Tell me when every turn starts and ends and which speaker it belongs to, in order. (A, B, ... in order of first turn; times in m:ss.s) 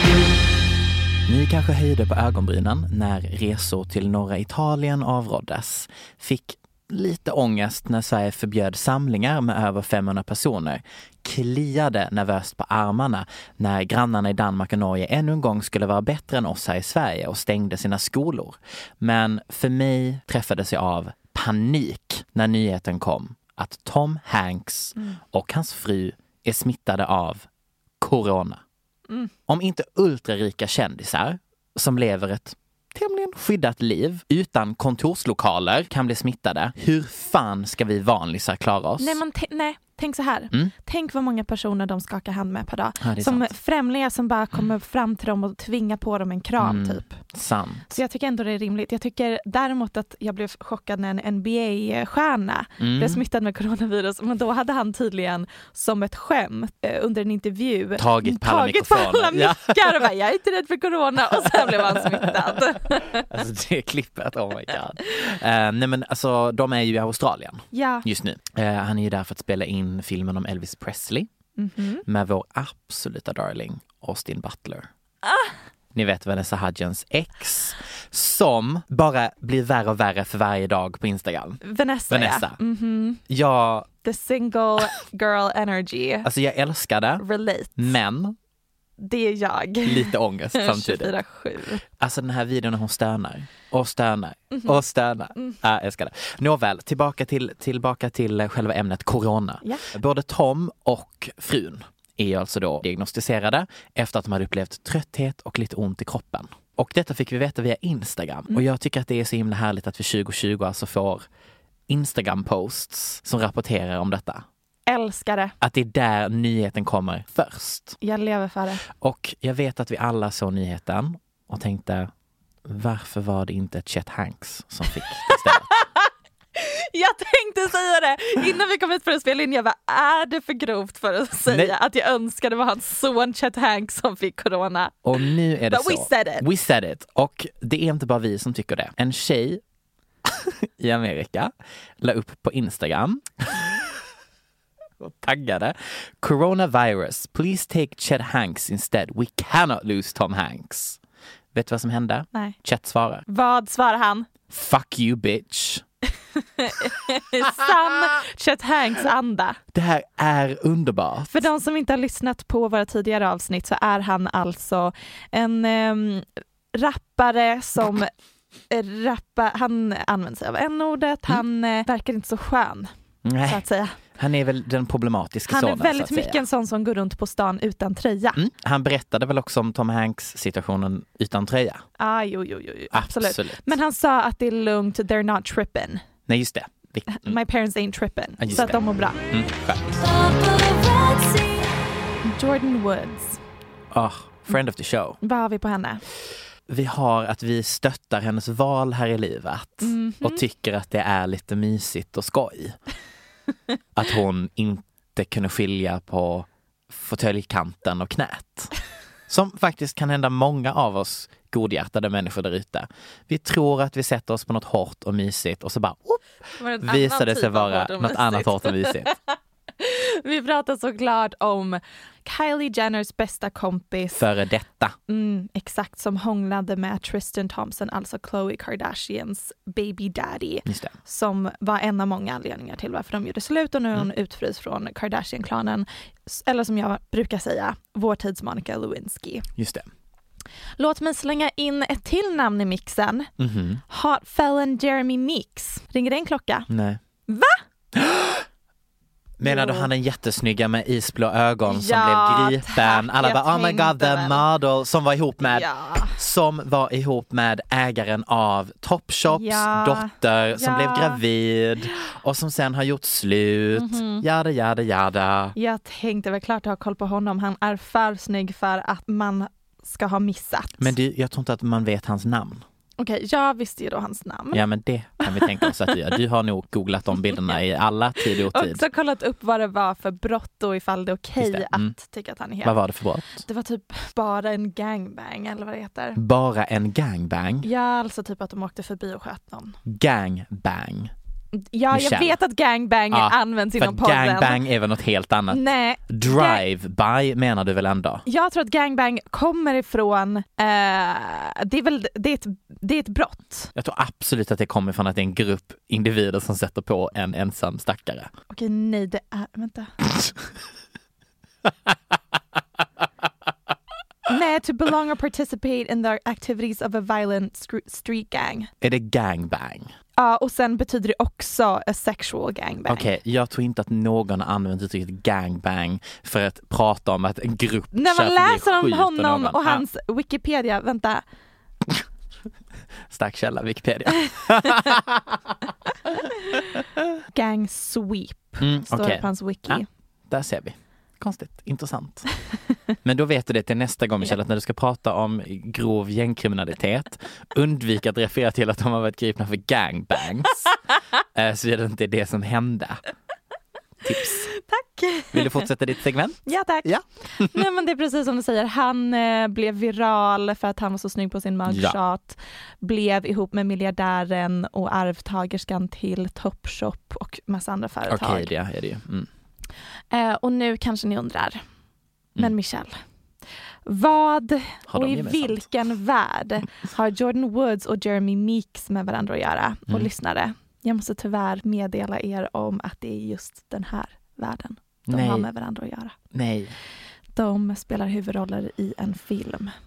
0:01.3-0:27.5 A
0:28.0-0:28.6 A
0:29.5-0:39.2 A
0:39.0-0:47.2 B
0:43.0-0:43.5 A
0:46.6-0:47.9 A
0:47.9-1:03.3 B
0:52.8-0:53.2 A
0:58.0-1:00.1 A
1:01.4-1:02.6 A
1:03.2-1:11.3 A
1:07.7-1:08.1 B
1:11.6-1:12.0 B
1:12.1-1:14.9 A
1:15.2-1:15.5 B
1:15.9-1:22.6 A
1:21.6-1:23.2 B
1:23.3-1:23.9 A
1:24.0-1:26.3 B
1:26.2-1:27.2 A
1:27.2-1:27.9 B
1:27.8-1:28.4 A
1:29.0-1:31.8 B
1:29.8-1:31.1 A
1:32.0-1:51.3 A
1:34.5-1:34.8 B
1:51.9-1:54.4 A
1:54.9-1:55.6 B
1:55.6-1:58.0 A
1:58.0-1:58.8 B
1:58.9-2:02.1 A
2:02.6-2:05.7 A
2:05.3-2:15.1 B
2:11.5-2:11.8 A
2:15.0-2:19.6 A
2:15.7-2:16.5 B
2:20.3-2:23.8 A
2:25.0-2:31.0 A
2:31.5-2:33.2 A
2:33.3-2:34.3 B
2:34.5-2:35.8 A
2:36.6-2:39.6 B
2:39.7-2:41.4 A
2:41.3-2:48.1 B
2:48.7-2:52.9 B
2:53.2-2:53.6 A
2:53.4-2:54.0 B
2:54.2-2:56.4 A
2:55.5-2:58.4 B
2:58.4-3:01.8 A
3:02.0-3:06.0 B
3:02.9-3:03.8 A
3:06.3-3:07.4 A
3:07.1-3:09.2 B
3:08.4-3:10.0 A
3:10.2-3:11.5 B
3:12.2-3:13.4 B
3:13.9-3:15.2 A
3:15.2-3:16.0 B
3:16.7-3:22.8 A
3:19.8-3:20.4 B
3:24.0-3:28.7 A
3:29.3-3:36.2 A
3:36.6-3:39.2 B
3:36.8-3:39.1 A
3:39.8-3:44.2 B
3:44.2-3:45.0 A
3:45.1-3:59.5 B
3:50.7-3:50.9 A
3:59.6-3:59.9 A
4:00.8-4:03.3 B
4:03.4-4:03.8 A
4:03.9-4:06.7 B
4:06.7-4:07.0 A
4:07.3-4:07.6 B
4:08.0-4:08.4 A
4:09.4-4:25.6 A
4:09.4-4:09.9 B
4:11.7-4:14.4 B
4:15.4-4:16.2 B
4:19.3-4:21.2 B
4:23.8-4:24.2 B
4:25.6-4:30.9 B
4:30.8-4:32.6 A
4:33.0-4:34.6 B
4:34.5-4:38.8 A
4:35.2-4:35.7 B
4:38.4-4:42.8 B
4:41.4-4:41.9 A
4:42.6-4:43.4 A
4:43.4-4:46.2 B
4:46.2-4:47.7 A
4:47.6-4:49.8 B
4:49.9-4:51.1 A
4:51.6-4:54.6 B
4:51.9-4:52.4 A
4:53.1-4:58.2 A
4:55.5-4:56.6 B
4:58.3-5:03.7 B
5:03.8-5:08.3 A
5:08.5-5:09.9 B
5:14.3-5:18.7 B
5:18.8-5:19.9 A
5:20.2-5:23.1 B
5:22.9-5:29.8 A
5:27.9-5:31.2 B
5:33.1-5:35.4 A
5:37.3-5:39.9 B
5:38.6-5:42.3 A
5:43.0-5:50.7 A
5:51.4-5:53.0 A
5:54.0-5:54.5 A
5:54.5-5:55.7 B
5:55.3-5:57.5 A
5:56.5-6:08.5 B
6:01.7-6:02.0 A
6:08.1-6:09.3 A
6:10.1-6:11.6 B
6:12.4-6:13.0 B
6:13.9-6:26.2 B
6:14.9-6:15.6 A
6:25.1-6:25.5 A
6:26.3-6:26.7 A
6:27.4-6:29.7 B